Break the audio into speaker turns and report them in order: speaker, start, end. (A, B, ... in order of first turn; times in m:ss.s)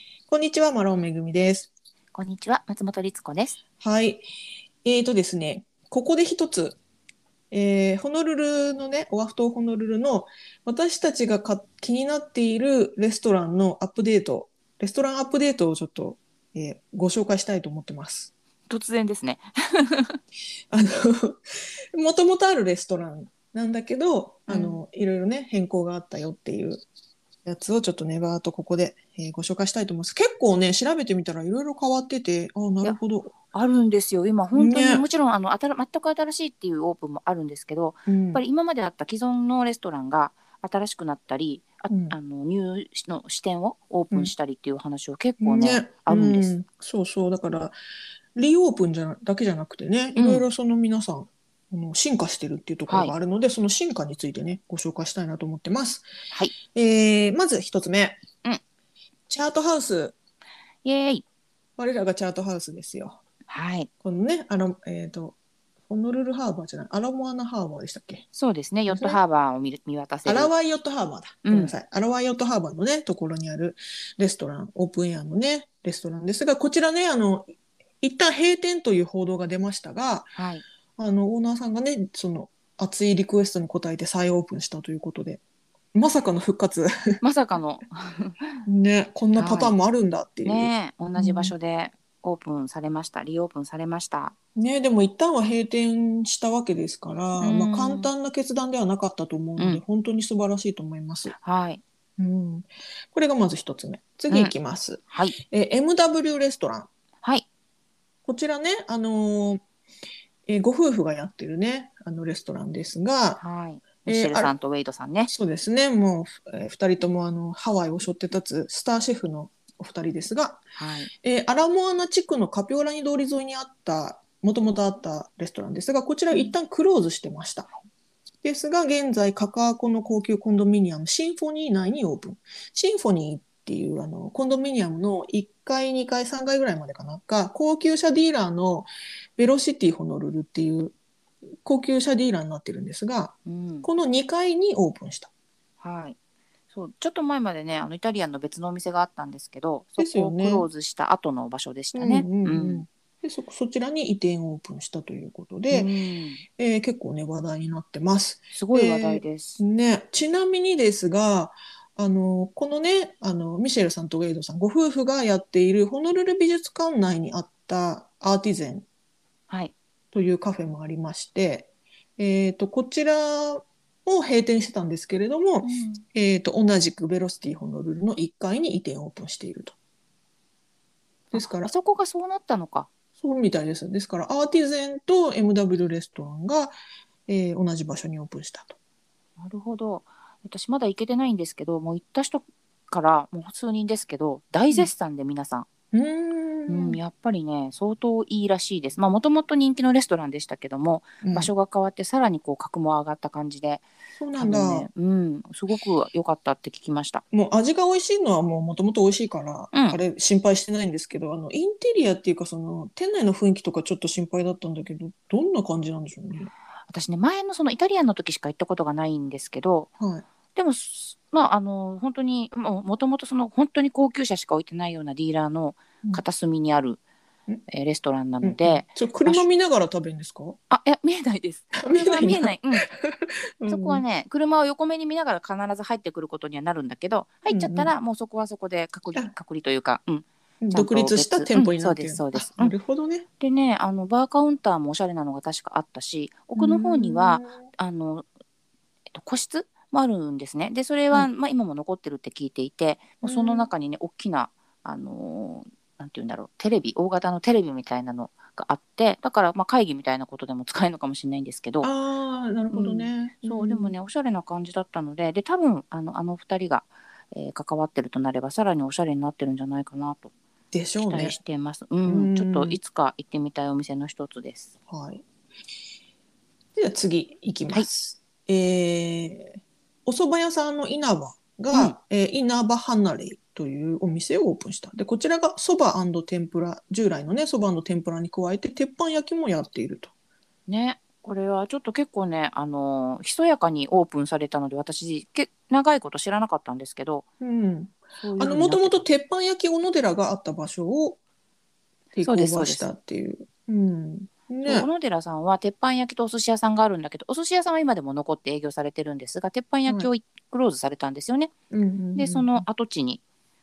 0:00.3-0:01.7 A
0:02.1-0:03.6 B
0:03.8-0:04.2 A
0:04.8-0:06.8 A
0:07.5-0:18.3 A
0:18.7-0:20.2 B
0:20.7-0:21.4 A
0:21.9-0:26.8 A
0:24.5-0:24.8 B
0:27.4-0:33.3 A
0:33.5-0:46.5 B
0:34.5-0:35.0 A
0:38.1-0:38.4 A
0:41.9-0:42.2 A
0:45.4-0:47.8 A
0:48.4-0:56.0 A
0:50.2-0:50.4 B
0:52.9-0:53.1 B
0:56.6-0:58.2 A
0:59.3-1:00.1 A
1:00.8-1:01.2 B
1:01.8-1:03.2 A
1:03.5-1:03.9 B
1:04.0-1:05.4 A
1:05.9-1:08.2 A
1:08.3-1:10.5 B
1:08.9-1:09.2 A
1:10.2-1:20.3 A
1:11.4-1:11.7 B
1:20.3-1:20.6 B
1:21.0-1:25.4 A
1:25.9-1:27.2 A
1:27.2-1:28.6 B
1:28.6-1:31.5 A
1:29.4-1:29.8 B
1:30.4-1:34.3 B
1:34.6-1:41.3 A
1:37.4-1:38.1 B
1:39.6-1:39.8 B
1:41.3-1:41.8 B
1:42.2-1:46.9 A
1:44.3-1:44.5 B
1:45.1-1:45.4 B
1:48.2-1:49.6 A
1:50.5-1:53.4 A
1:53.4-1:55.3 B
1:54.0-1:54.5 A
1:55.3-2:00.6 A
2:00.8-2:01.1 B
2:01.2-2:07.7 A
2:08.4-2:20.9 A
2:21.6-2:25.3 A
2:23.4-2:23.9 B
2:25.8-2:26.2 B
2:26.7-2:32.8 B
2:30.0-2:30.7 A
2:31.9-2:35.9 A
2:35.7-2:36.4 B
2:36.6-2:48.8 A
2:38.5-2:39.6 B
2:50.1-2:59.7 A
2:55.6-2:56.0 B
3:01.3-3:01.7 A
3:01.3-3:02.9 B
3:03.2-3:06.7 A
3:07.3-3:08.8 A
3:09.4-3:15.6 B
3:15.9-3:17.0 A
3:16.7-3:23.8 B
3:21.2-3:21.5 A
3:24.2-3:24.9 A
3:24.4-3:27.2 B
3:27.3-3:36.5 A
3:29.7-3:30.0 B
3:36.9-3:39.9 B
3:40.0-3:40.2 A
3:40.5-3:47.0 B
3:47.7-3:49.4 B
3:48.4-3:50.6 A
3:50.7-3:52.8 B
3:51.8-3:54.0 A
3:53.7-4:02.7 B
3:57.5-3:57.9 A
4:00.6-4:03.2 A
4:03.4-4:08.2 B
4:06.6-4:07.6 A
4:09.1-4:21.9 B
4:13.2-4:13.7 A
4:21.8-4:23.9 A
4:22.7-4:30.3 B
4:30.7-4:31.4 A
4:31.0-4:34.7 B
4:32.0-4:32.8 A
4:34.9-4:35.2 A
4:36.7-4:50.1 A
4:50.7-4:57.2 B
4:57.4-5:01.2 A
4:58.2-4:59.1 B
5:02.1-5:04.9 A
5:02.2-5:02.9 B
5:04.6-5:11.5 B
5:11.7-5:12.7 A
5:12.1-5:13.2 B